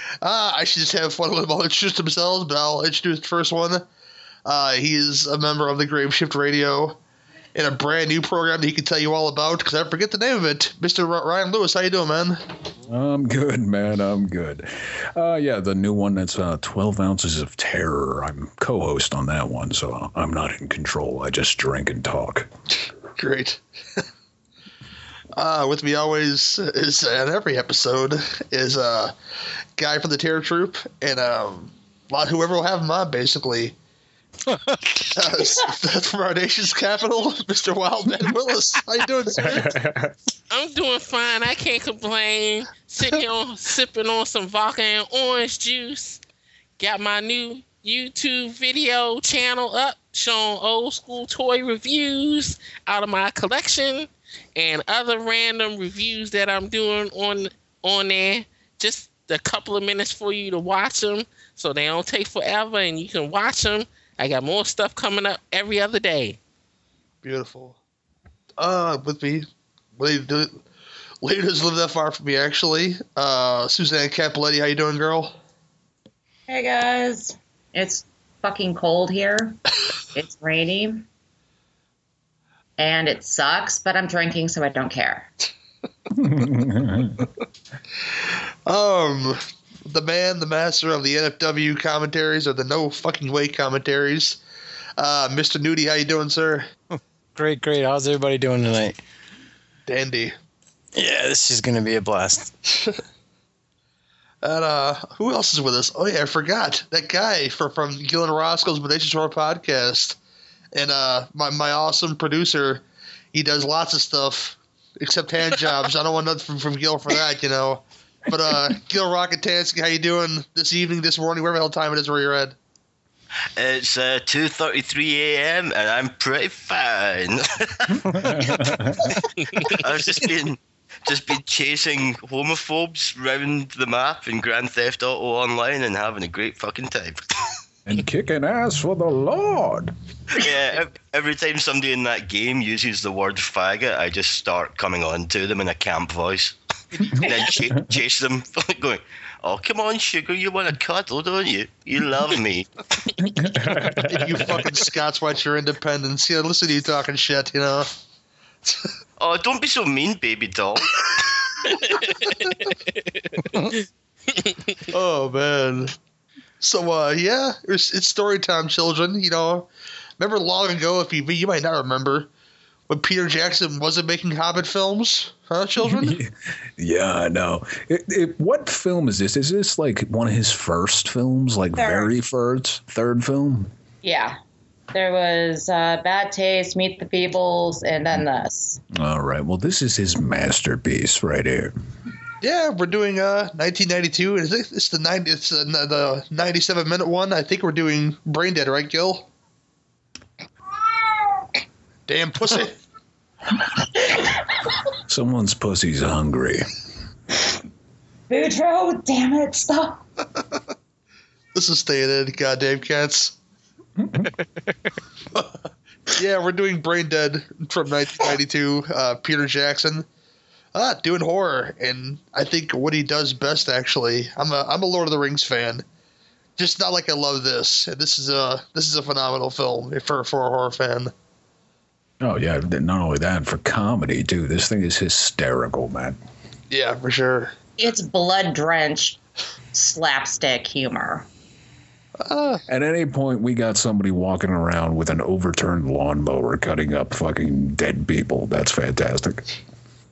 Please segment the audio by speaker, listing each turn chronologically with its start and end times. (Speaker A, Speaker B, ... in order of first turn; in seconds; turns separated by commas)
Speaker A: 0.2-3.8, Speaker A: 4.4-7.0, Speaker A: 7.5-12.4, Speaker B: 12.9-22.5, Speaker A: 23.1-24.0, Speaker A: 25.3-29.1, Speaker A: 29.8-33.8, Speaker C: 34.5-34.8, Speaker A: 35.0-39.8, Speaker B: 39.3-40.1, Speaker D: 40.5-46.2, Speaker D: 46.8-66.4, Speaker A: 67.2-67.8, Speaker A: 68.6-69.5, Speaker A: 70.0-70.6, Speaker A: 71.2-75.3, Speaker E: 76.5-79.6, Speaker E: 80.1-81.0, Speaker E: 82.8-85.3, Speaker B: 86.1-87.2, Speaker A: 88.2-94.4, Speaker A: 95.0-96.7, Speaker C: 96.9-99.0, Speaker A: 99.9-100.3, Speaker C: 100.9-102.5, Speaker A: 104.4-110.2, Speaker A: 110.7-112.8, Speaker A: 113.3-122.5, Speaker F: 123.5-128.2, Speaker B: 128.0-129.2, Speaker D: 129.5-129.8, Speaker F: 129.6-137.2, Speaker B: 137.8-139.9, Speaker F: 140.3-152.7, Speaker B: 153.2-154.5, Speaker A: 154.1-158.0, Speaker A: 158.6-158.9, Speaker F: 159.2-161.2, Speaker D: 161.8-164.8, Speaker A: 164.9-165.9, Speaker A: 166.6-169.7, Speaker A: 170.2-172.3, Speaker A: 172.9-176.2, Speaker B: 175.8-183.7, Speaker E: 181.8-182.1, Speaker E: 184.0-184.4, Speaker E: 184.9-188.8, Speaker B: 188.9-191.7, Speaker A: 192.4-199.3, Speaker A: 202.1-202.8, Speaker E: 204.1-204.4, Speaker B: 205.1-206.7, Speaker E: 208.3-210.0, Speaker A: 211.5-213.3, Speaker B: 214.0-214.3, Speaker A: 215.3-220.1, Speaker A: 220.7-225.8, Speaker A: 226.6-231.1, Speaker B: 232.2-236.2, Speaker A: 236.7-237.5, Speaker E: 237.8-239.2, Speaker E: 239.7-241.3, Speaker A: 242.2-242.6, Speaker B: 242.7-249.5